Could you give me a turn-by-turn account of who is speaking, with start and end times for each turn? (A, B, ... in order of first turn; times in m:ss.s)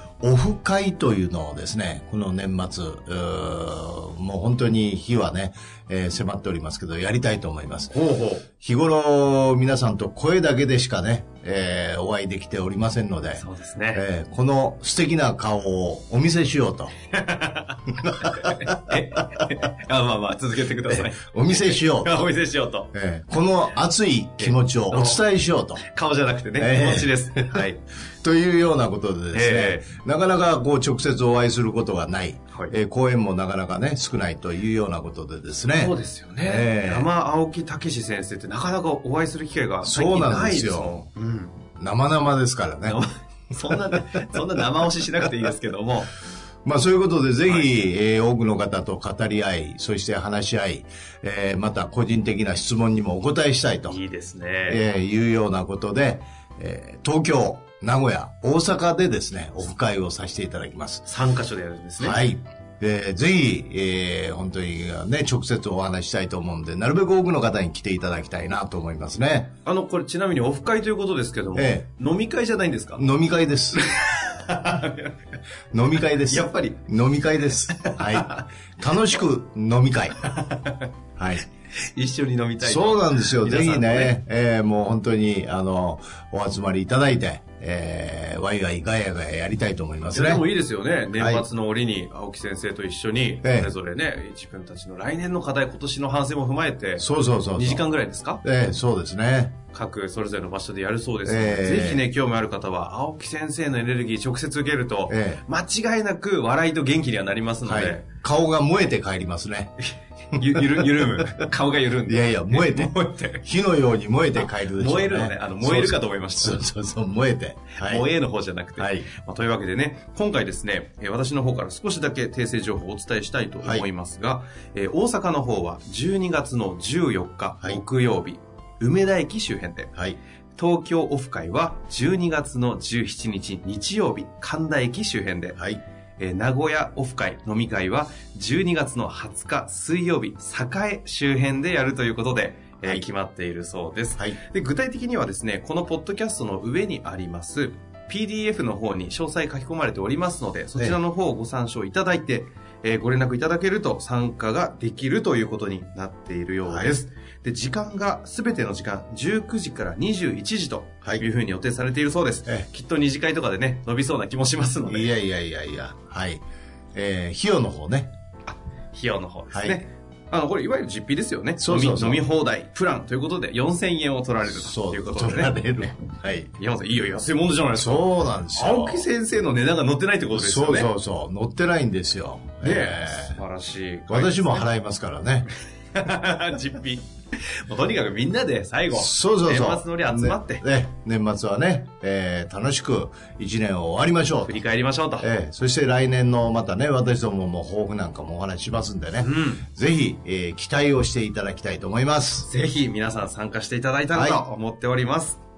0:00.2-0:07.9 A
0:07.9-0:08.4 B
0:08.6-0:16.9 A
0:13.4-0:14.0 B
0:17.1-0:22.9 B
0:18.1-0:19.0 A
0:20.9-0:22.2 A
0:22.9-0:25.8 A
0:24.4-0:25.2 B
0:25.8-0:27.8 B
0:26.6-0:27.7 A
0:28.2-0:37.1 A
0:29.3-0:29.8 B
0:35.8-0:41.6 B
0:39.8-0:41.0 A
0:41.8-0:43.0 A
0:42.8-0:46.1 B
0:43.7-0:43.9 A
0:46.6-0:54.0 A
0:47.4-0:47.7 B
0:53.9-0:54.8 B
0:54.7-1:01.0 A
1:01.0-1:02.2 B
1:02.0-1:09.5 A
1:09.6-1:13.1 B
1:11.5-1:11.9 A
1:13.0-1:13.8 A
1:13.8-1:15.2 B
1:15.7-1:20.2 A
1:16.2-1:16.8 B
1:17.7-1:18.4 B
1:20.2-1:20.9 B
1:21.2-1:21.4 A
1:21.8-1:24.1 B
1:22.6-1:30.4 A
1:30.1-1:38.4 B
1:31.2-1:31.4 A
1:33.4-1:33.7 A
1:37.0-1:37.8 A
1:38.4-1:39.6 A
1:39.7-1:48.1 B
1:41.2-1:42.0 A
1:45.1-1:45.4 A
1:47.6-1:49.7 A
1:49.8-1:53.5 B
1:50.4-1:51.4 A
1:52.0-1:58.0 A
1:54.4-1:56.6 B
1:57.7-2:09.9 B
1:58.8-1:59.1 A
2:10.6-2:15.6 B
2:15.6-2:15.8 A
2:16.2-2:45.1 B
2:36.6-2:37.0 A
2:44.8-2:46.4 A
2:46.9-2:48.1 A
2:48.5-2:55.6 B
2:49.5-2:49.8 A
2:51.6-2:52.2 A
2:54.5-2:56.5 A
2:56.5-3:00.9 B
2:57.7-2:59.0 A
3:00.3-3:03.4 A
3:02.6-3:04.7 B
3:04.1-3:05.5 A
3:05.9-3:07.1 B
3:07.6-3:10.6 B
3:08.9-3:14.6 A
3:14.5-3:15.3 B
3:15.2-3:22.5 A
3:19.2-3:19.6 B
3:22.4-3:25.4 B
3:24.1-3:24.4 A